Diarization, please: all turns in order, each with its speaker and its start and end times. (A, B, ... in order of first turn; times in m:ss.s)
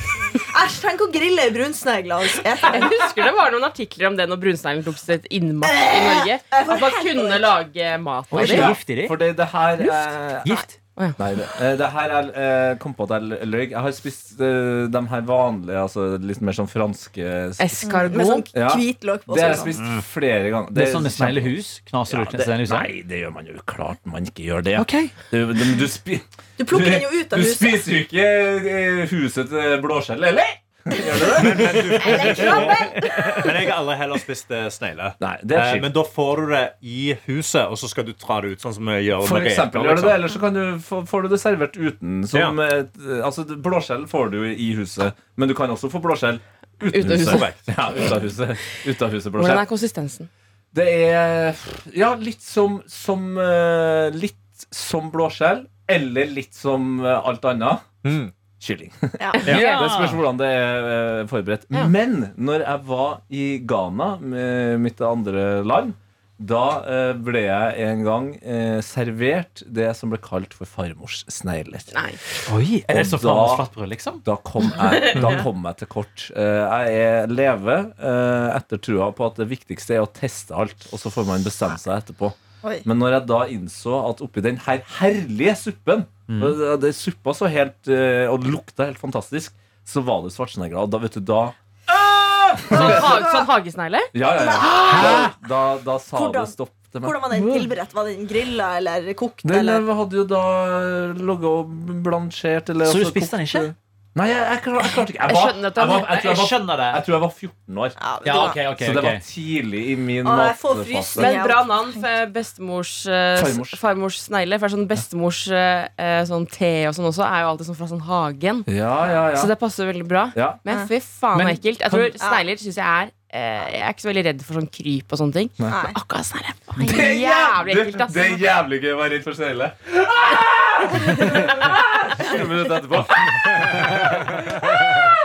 0:00.4-0:03.1 A
0:02.6-0:08.7 B
0:05.6-0:07.5 A
0:08.3-0:09.2 C
0:08.3-0:10.6 D
0:10.4-0:10.8 C
0:11.2-0:17.9 D
0:17.6-0:18.5 B
0:17.8-0:19.8 A
0:18.5-0:32.5 D
0:20.7-0:22.9 C
0:24.8-0:25.1 C
0:26.6-0:27.9 A
0:31.4-0:40.3 E
0:32.0-0:33.5 A
0:35.2-0:35.9 D
0:39.2-0:49.6 D
0:42.3-0:42.6 E
0:46.9-0:47.5 B
0:47.1-0:47.6 E
0:49.4-0:50.3 B
0:50.7-0:57.9 D
0:58.0-0:58.3 E
0:58.6-1:13.7 D
0:59.2-0:59.4 A
0:59.4-0:59.9 B
0:59.5-1:00.2 C
1:11.9-1:12.2 B
1:12.5-1:14.2 C
1:14.2-1:33.4 D
1:14.8-1:15.4 B
1:26.3-1:26.6 C
1:32.7-1:34.1 B
1:34.1-1:37.2 D
1:34.4-1:35.3 A
1:34.6-1:35.3 C
1:36.1-1:39.8 A
1:37.3-1:37.7 B
1:39.4-1:51.3 D
1:42.8-1:43.7 C
1:45.2-1:46.2 B
1:46.1-1:47.0 C
1:48.0-1:48.6 A
1:48.2-1:49.2 C
1:50.2-1:52.0 A
1:51.2-1:58.7 B
1:53.4-1:53.8 D
1:58.7-1:59.5 D
1:59.3-2:08.4 B
2:00.3-2:00.6 D
2:01.4-2:02.1 C
2:02.2-2:02.4 A
2:05.7-2:06.0 A
2:06.8-2:15.2 D
2:13.5-2:14.3 C